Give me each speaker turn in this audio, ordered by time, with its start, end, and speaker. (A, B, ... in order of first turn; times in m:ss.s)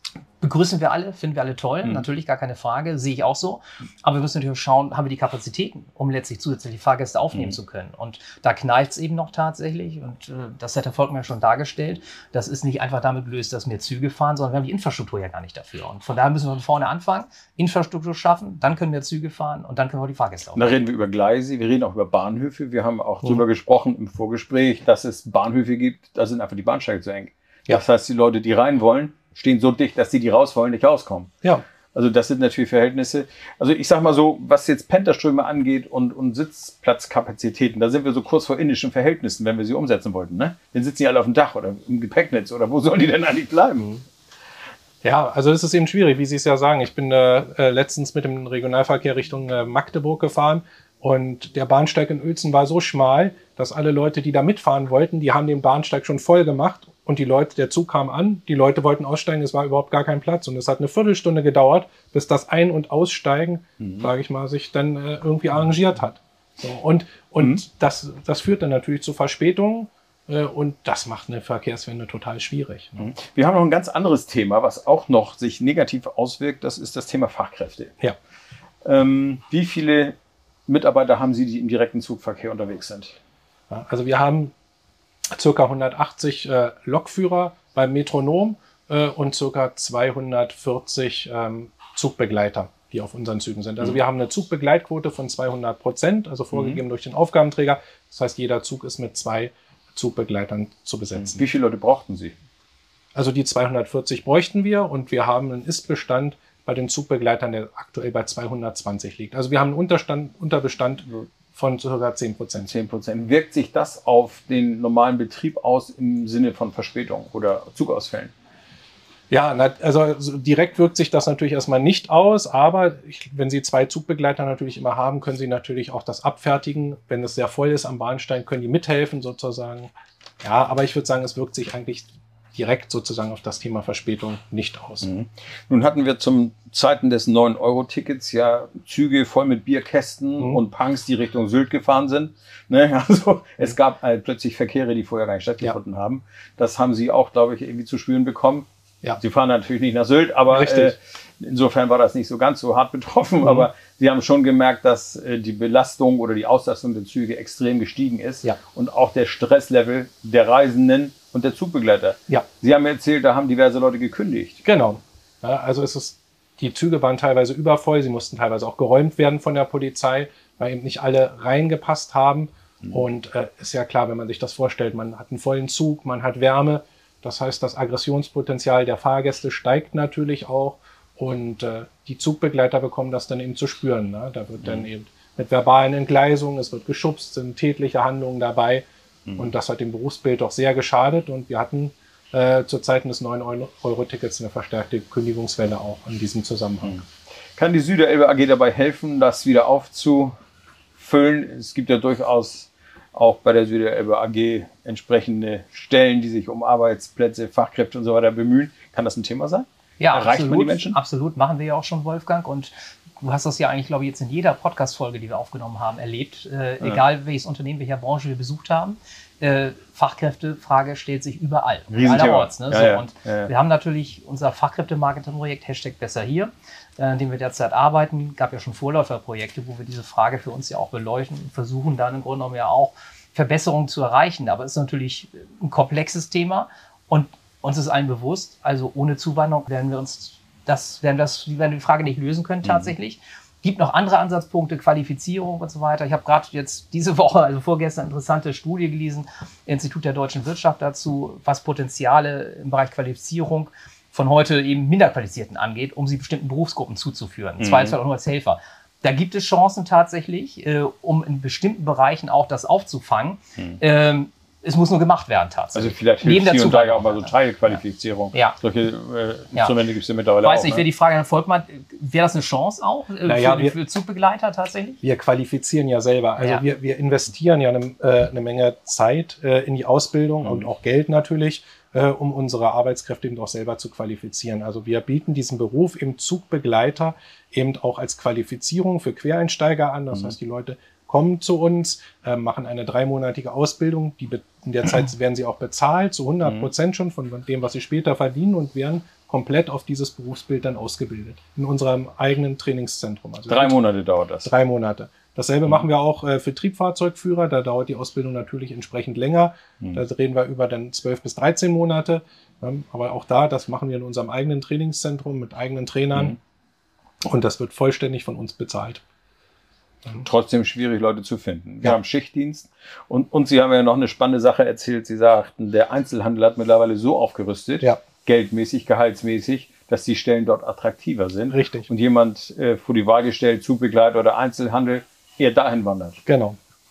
0:00.4-0:20.7 A
0:20.6-0:31.3 B
0:31.9-0:44.0 B
0:45.0-1:13.1 C
1:03.8-1:04.1 B
1:13.0-1:18.0 B
1:18.8-1:20.2 B
1:20.7-1:23.2 B
1:23.7-1:24.5 C
1:25.3-1:41.4 C
1:36.5-1:36.8 B
1:41.2-1:42.4 B
1:43.2-1:52.7 C
1:52.6-1:58.3 B
1:59.3-2:15.1 C
2:15.0-2:28.7 B
2:29.2-2:44.6 B
2:30.5-2:30.9 C
2:33.4-2:33.7 C
2:44.6-3:08.9 C
3:09.4-3:17.0 C
3:17.6-3:20.3 B
3:21.0-3:31.0 B
3:30.0-4:27.4 A
3:41.9-3:43.5 B
4:02.6-4:02.9 B
4:17.6-4:18.0 B
4:25.8-4:30.8 B
4:28.3-4:28.6 A
4:30.4-4:35.0 A
4:33.2-4:33.8 C
4:35.0-5:03.8 C
4:56.4-4:56.7 B
5:03.5-5:04.5 B
5:04.4-5:16.4 C
5:17.2-5:19.0 C
5:20.2-5:36.2 B
5:31.5-5:31.9 C
5:36.3-5:36.6 C